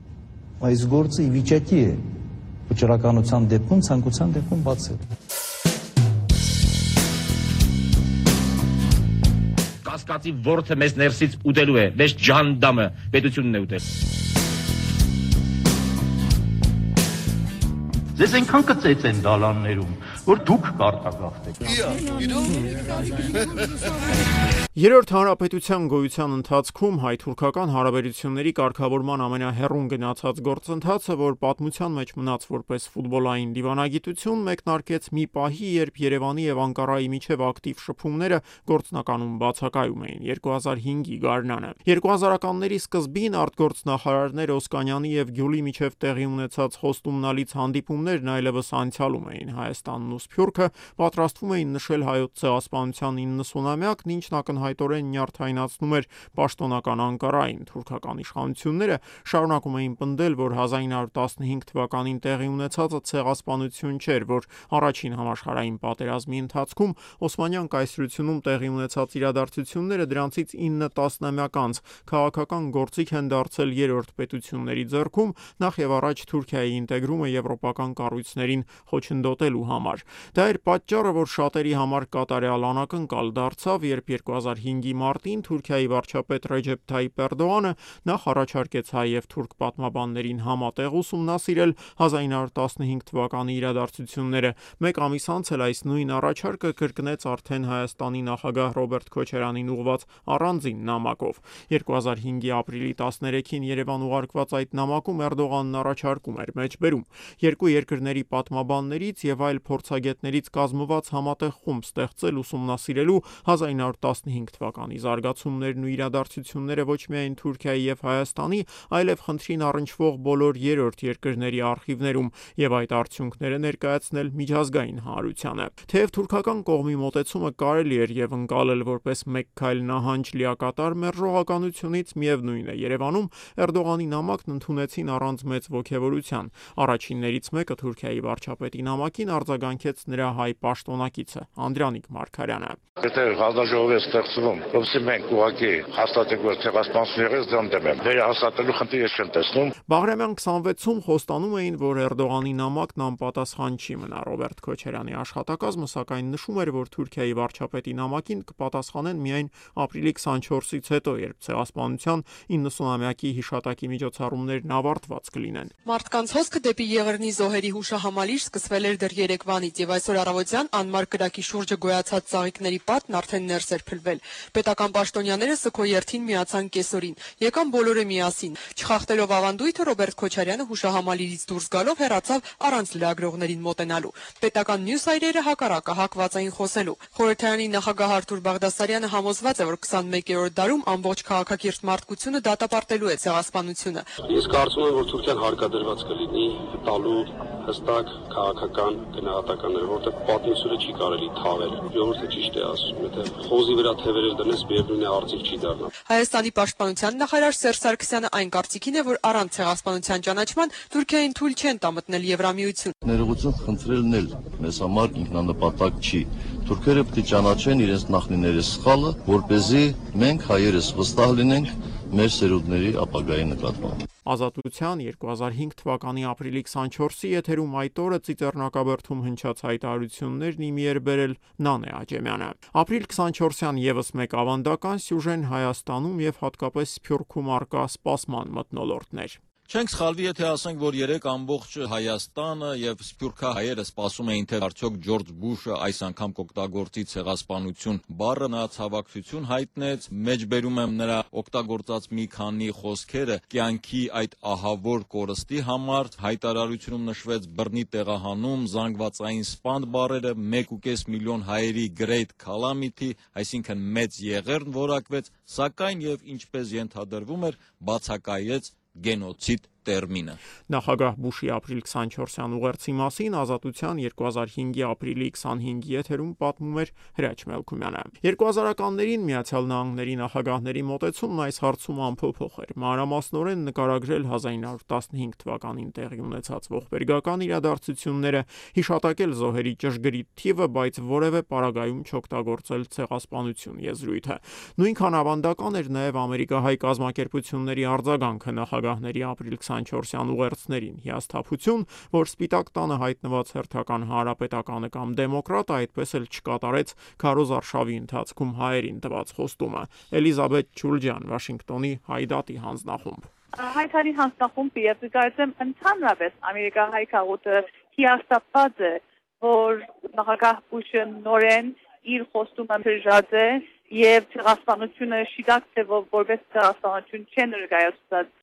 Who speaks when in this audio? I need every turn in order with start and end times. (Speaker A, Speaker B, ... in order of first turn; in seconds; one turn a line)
Speaker A: 0.6-2.0
Speaker A: 2.7-5.0
Speaker B: 9.8-13.8
Speaker C: 18.2-21.7
Speaker D: 24.8-142.8
Speaker E: 143.0-149.7
Speaker D: 149.9-165.7
Speaker F: 165.8-194.1
Speaker G: 194.2-205.9
Speaker F: 206.1-212.9
Speaker H: 213.0-224.0
Speaker D: 224.2-239.4
Speaker I: 239.7-270.4
Speaker D: 270.7-313.3
Speaker J: 313.6-328.3